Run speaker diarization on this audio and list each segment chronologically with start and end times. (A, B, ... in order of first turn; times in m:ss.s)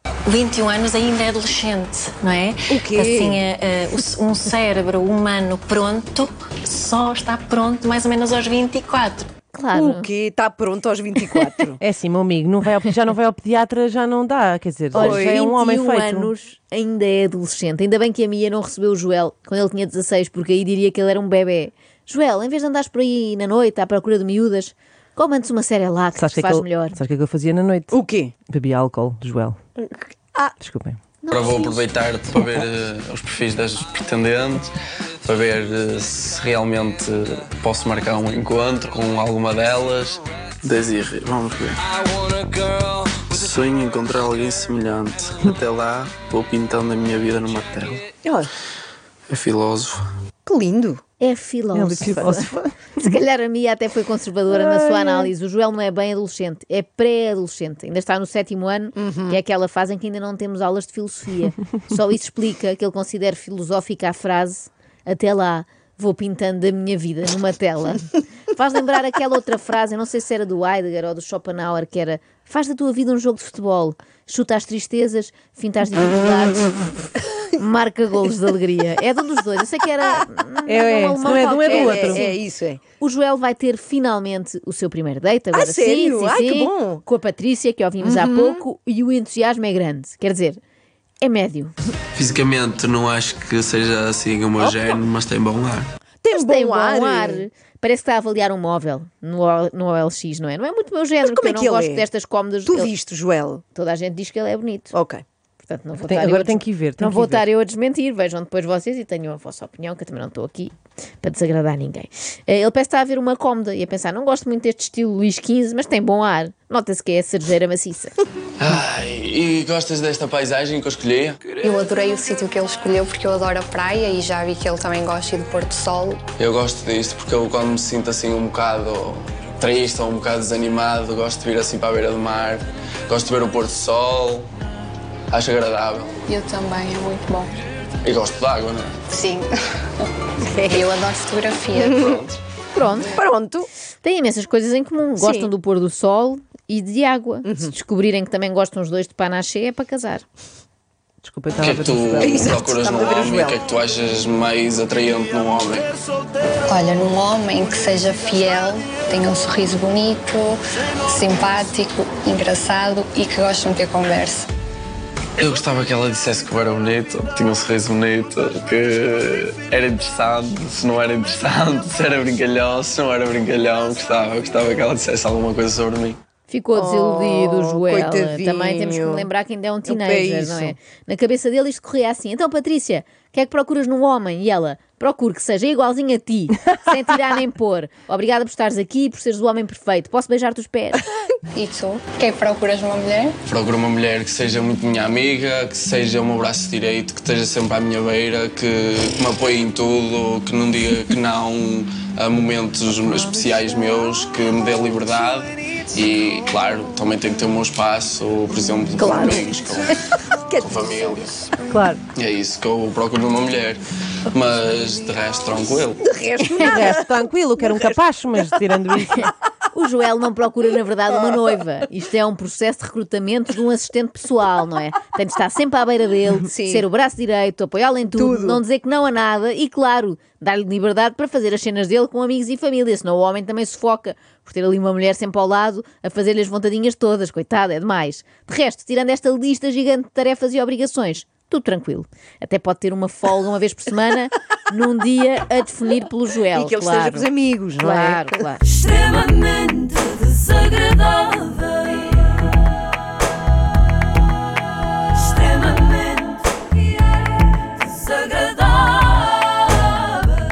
0:00.3-0:09.3 A
0:02.7-0:03.4 B
0:09.5-0:10.1 C
0:09.7-0:11.8 B
0:11.8-0:16.3 D
0:14.9-0:15.4 B
0:14.9-0:27.0 C
0:26.2-0:29.6 D
0:27.9-0:28.3 B
0:30.6-0:31.0 D
0:31.2-0:31.9 C
0:31.3-0:34.7 E
0:35.2-0:41.8 E
0:43.1-0:48.1 E
0:48.2-0:48.5 B
0:49.3-0:50.0 E
0:50.5-0:51.0 B
0:51.2-0:52.5 C
0:51.7-0:52.9 D
0:53.0-1:22.3 C
0:54.6-0:55.3 B
0:59.0-0:59.4 B
1:20.7-1:22.3 D
1:21.3-1:22.8 B
1:23.0-1:30.6 C
1:25.5-1:27.0 B
1:28.0-1:28.6 B
1:31.2-1:31.7 C
1:32.2-1:35.9 E
1:36.2-1:37.4 B
1:36.3-1:42.9 C
1:41.2-1:42.0 B
1:42.6-1:43.6 B
1:43.7-1:44.9 C
1:44.9-1:45.2 B
1:45.6-1:58.1 C
1:46.1-1:47.5 D
1:58.6-2:01.7 E
2:01.6-2:06.2 F
2:06.4-2:14.5 E
2:15.3-2:16.1 E
2:16.3-2:17.5 F
2:18.0-2:18.9 E
2:19.1-2:22.3 F
2:21.7-2:22.2 B
2:22.8-2:23.1 C
2:23.2-2:23.7 B
2:24.0-2:30.2 C
2:25.2-2:25.5 B
2:27.4-2:27.7 B
2:31.2-2:32.5 D
2:31.6-2:35.9 E
2:32.2-2:33.6 B
2:36.7-2:44.5 F
2:45.4-2:56.2 E
2:56.5-3:11.0 C
2:56.7-2:59.3 B
2:59.9-3:00.7 B
3:11.6-3:13.4 F
3:13.5-3:30.0 E
3:29.0-3:29.8 B
3:30.4-3:31.4 B
3:30.6-3:31.4 E
3:31.7-3:32.0 D
3:32.2-3:36.0 E
3:36.0-3:37.1 B
3:36.6-3:39.3 D
3:39.7-4:07.3 C
3:46.5-3:46.9 B
3:48.1-3:48.6 B
4:06.5-4:08.3 B
4:07.8-4:08.8 C